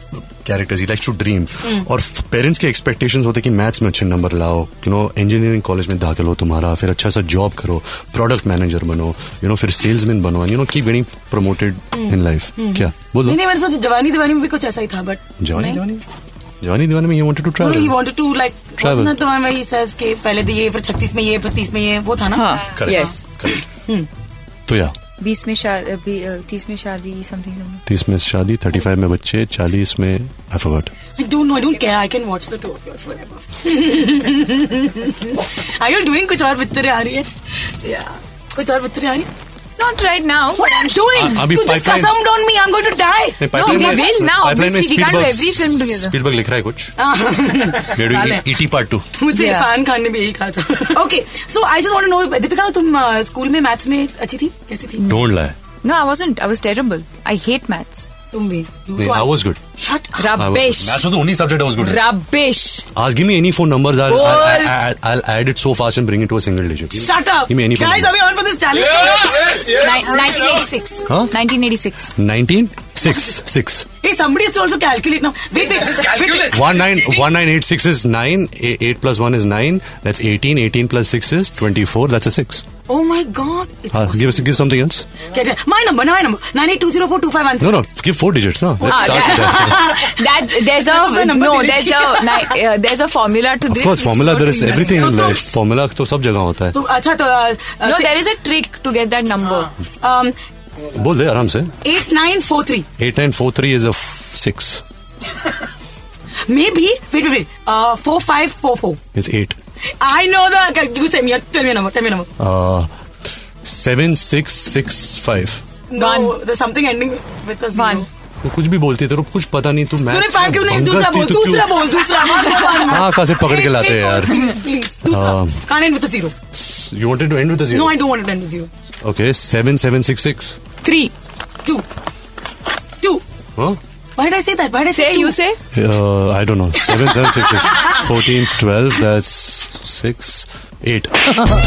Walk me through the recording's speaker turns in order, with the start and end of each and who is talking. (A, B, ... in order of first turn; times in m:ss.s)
0:00.1-0:13.4 A
0:01.6-0:01.9 B
0:11.9-0:15.8 B
0:15.4-0:16.1 A
0:16.6-0:18.0 A
0:17.6-0:23.0 B
0:18.8-0:19.1 A
0:22.3-0:23.2 C
0:22.7-0:23.6 A
0:23.7-0:24.1 B
0:24.7-0:25.0 A
0:25.2-0:27.8 C
0:27.9-0:30.9 A
0:31.2-0:39.3 B
0:39.8-0:41.1 C
0:40.6-0:44.1 B
0:41.1-0:42.2 A
0:43.4-0:47.0 A
0:43.5-0:46.2 C
0:47.0-0:48.6 B
0:47.8-0:49.1 A
0:49.1-0:55.1 B
0:49.3-0:49.7 C
0:55.0-0:55.6 A
0:55.8-0:58.1 C
0:58.3-1:00.3 B
0:59.0-0:59.6 A
1:00.1-1:01.0 C
1:00.3-1:02.1 A
1:01.8-1:02.9 C
1:03.0-1:08.2 A
1:04.1-1:04.8 C
1:06.9-1:09.7 B
1:09.6-1:12.1 C
1:11.1-1:11.3 A
1:12.2-1:13.9 A
1:14.0-1:17.0 B
1:16.4-1:22.6 A
1:22.9-1:24.6 B
1:23.9-1:25.1 A
1:25.3-1:27.9 B
1:27.6-1:29.9 A
1:28.8-1:32.6 B
1:28.8-1:35.2 C
1:33.7-1:36.8 A
1:34.9-1:35.6 B
1:36.7-1:38.1 B
1:37.8-1:39.8 C
1:40.0-1:40.4 B
1:40.8-1:41.7 A
1:41.8-1:42.9 B
1:43.0-1:44.8 A
1:46.5-1:49.0 B
1:49.1-1:49.6 A
1:50.0-1:52.3 B
1:52.4-1:52.9 A
1:53.6-1:55.6 A
1:55.9-1:58.1 B
1:56.0-1:56.4 C
1:57.7-1:58.1 C
1:58.4-2:01.9 A
2:00.1-2:06.4 B
2:02.6-2:03.0 C
2:02.8-2:04.5 A
2:05.1-2:05.6 A
2:06.5-2:08.0 A
2:07.7-2:08.7 B
2:09.0-2:10.6 A
2:10.8-2:11.1 C
2:14.2-2:15.4 B
2:14.9-2:15.6 C
2:15.7-2:21.4 A
2:16.9-2:18.0 B